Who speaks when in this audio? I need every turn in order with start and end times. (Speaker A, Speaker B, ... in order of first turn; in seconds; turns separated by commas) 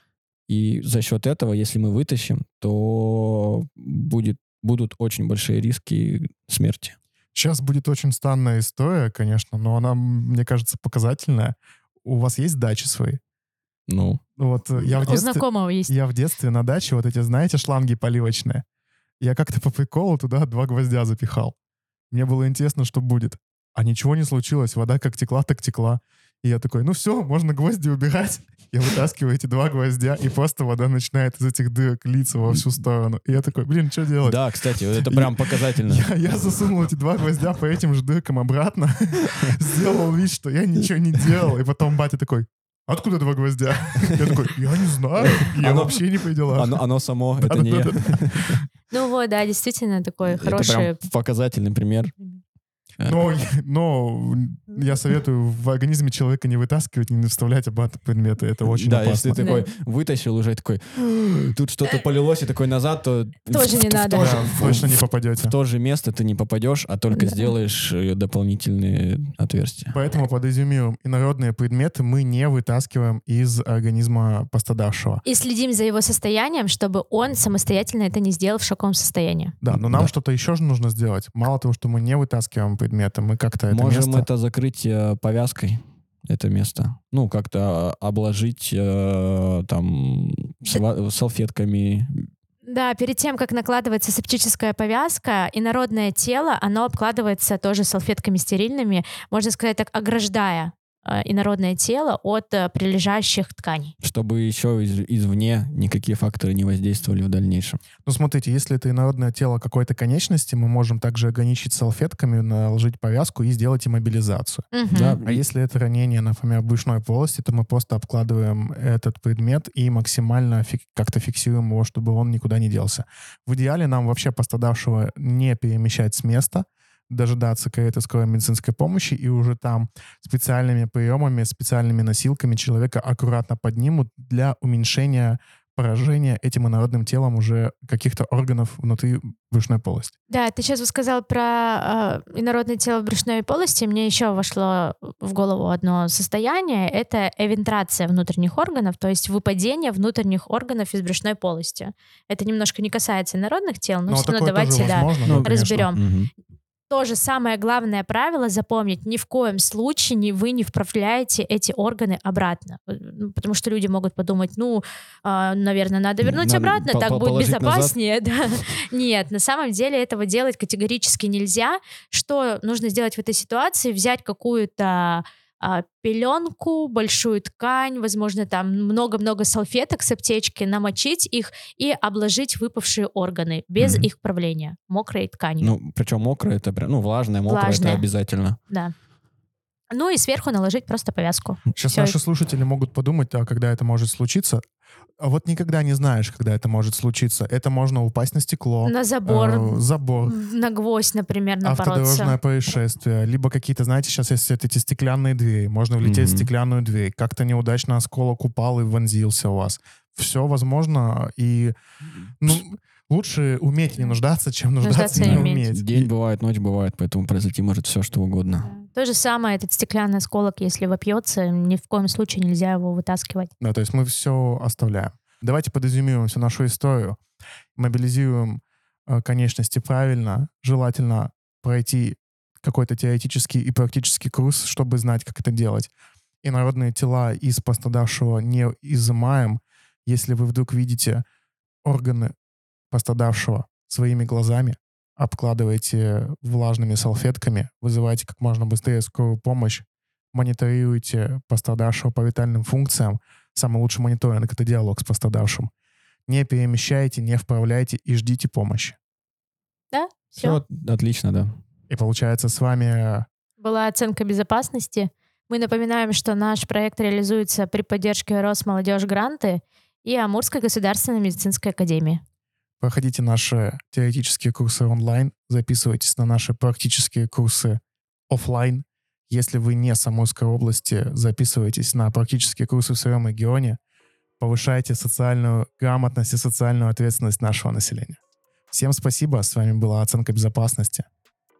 Speaker A: 0.5-7.0, Speaker B: 7.3-13.2, Speaker A: 13.9-14.2, Speaker B: 14.4-18.6, Speaker C: 15.0-15.9, Speaker B: 19.2-21.5, Speaker B: 22.1-48.6, Speaker A: 34.2-36.1, Speaker A: 45.2-48.6, Speaker C: 48.9-51.0, Speaker A: 50.2-52.2, Speaker A: 53.0-53.2, Speaker B: 53.0-59.4, Speaker A: 58.6-70.0, Speaker C: 59.4-59.7, Speaker C: 63.5-64.5, Speaker B: 64.1-65.5, Speaker C: 67.1-67.5, Speaker B: 69.9-75.2, Speaker C: 75.2-79.5, Speaker B: 79.6-84.3, Speaker A: 79.7-80.1, Speaker A: 83.7-92.3, Speaker C: 92.7-103.9, Speaker A: 104.0-107.8, Speaker B: 108.0-114.7, Speaker C: 114.7-115.2, Speaker A: 114.9-115.4, Speaker B: 115.2-140.1, Speaker C: 140.3-156.0, Speaker B: 154.1-155.9, Speaker A: 155.2-156.3, Speaker C: 156.9-185.8, Speaker A: 166.2-167.9, Speaker A: 183.8-184.1, Speaker A: 185.6-188.6, Speaker C: 187.5-188.1, Speaker C: 189.9-192.2, Speaker B: 191.8-194.6, Speaker B: 195.2-200.3, Speaker C: 198.8-202.3, Speaker B: 201.6-211.7, Speaker A: 206.0-206.5, Speaker B: 212.4-216.1, Speaker C: 214.8-215.6, Speaker A: 215.2-218.7, Speaker C: 218.7-223.5, Speaker B: 223.6-227.2, Speaker B: 227.7-235.9, Speaker B: 236.4-241.2, Speaker B: 241.8-242.3, Speaker B: 242.9-255.7, Speaker B: 256.3-259.0, Speaker C: 259.9-260.6, Speaker A: 260.4-261.6, Speaker B: 261.9-263.3, Speaker C: 263.6-272.2, Speaker B: 272.8-283.8, Speaker B: 284.4-288.2, Speaker B: 288.7-291.1